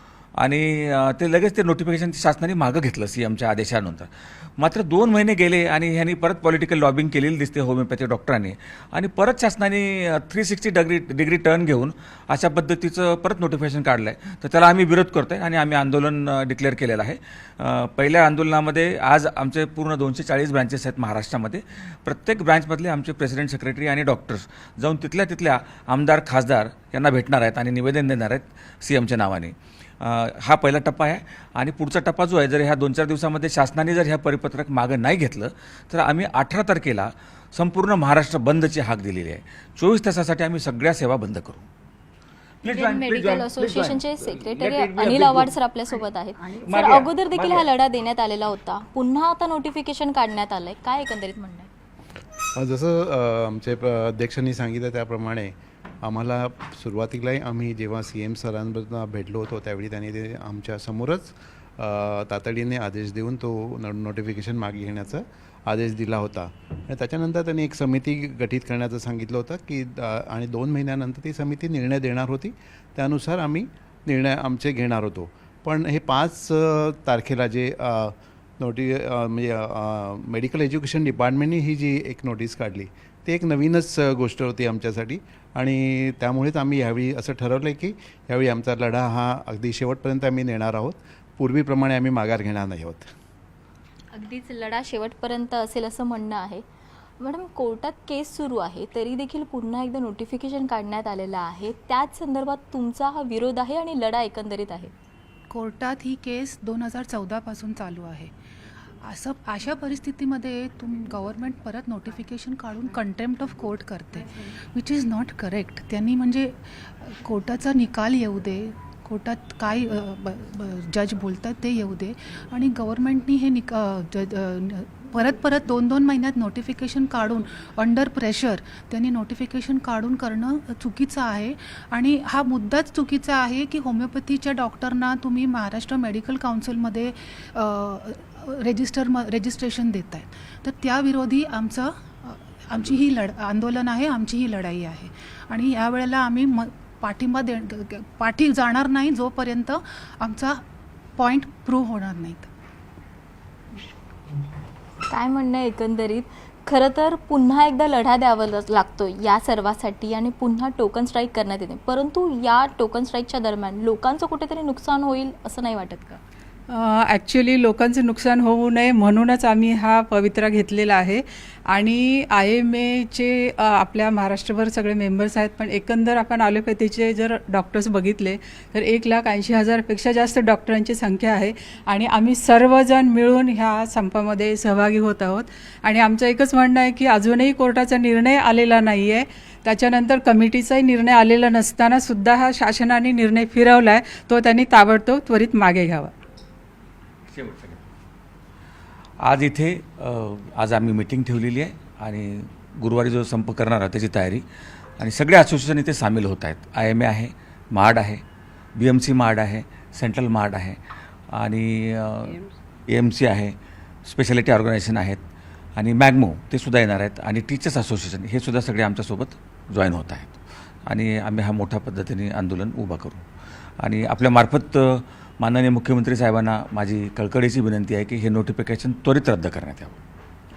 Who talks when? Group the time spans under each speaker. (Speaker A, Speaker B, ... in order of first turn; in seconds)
Speaker A: 0.4-41.7, 42.7-45.5, 46.7-47.6, 197.3-197.8, 199.2-204.4, 205.0-208.2, 208.8-210.8, 211.3-215.2, 215.8-220.3, 220.9-223.2, 223.8-230.0
Speaker B: 42.7-51.7, 94.1-96.6, 97.2-104.9, 155.1-166.2
Speaker C: 52.6-55.5, 56.0-93.1
Speaker D: 105.5-108.3, 109.0-150.6, 151.2-152.5
Speaker E: 166.7-196.1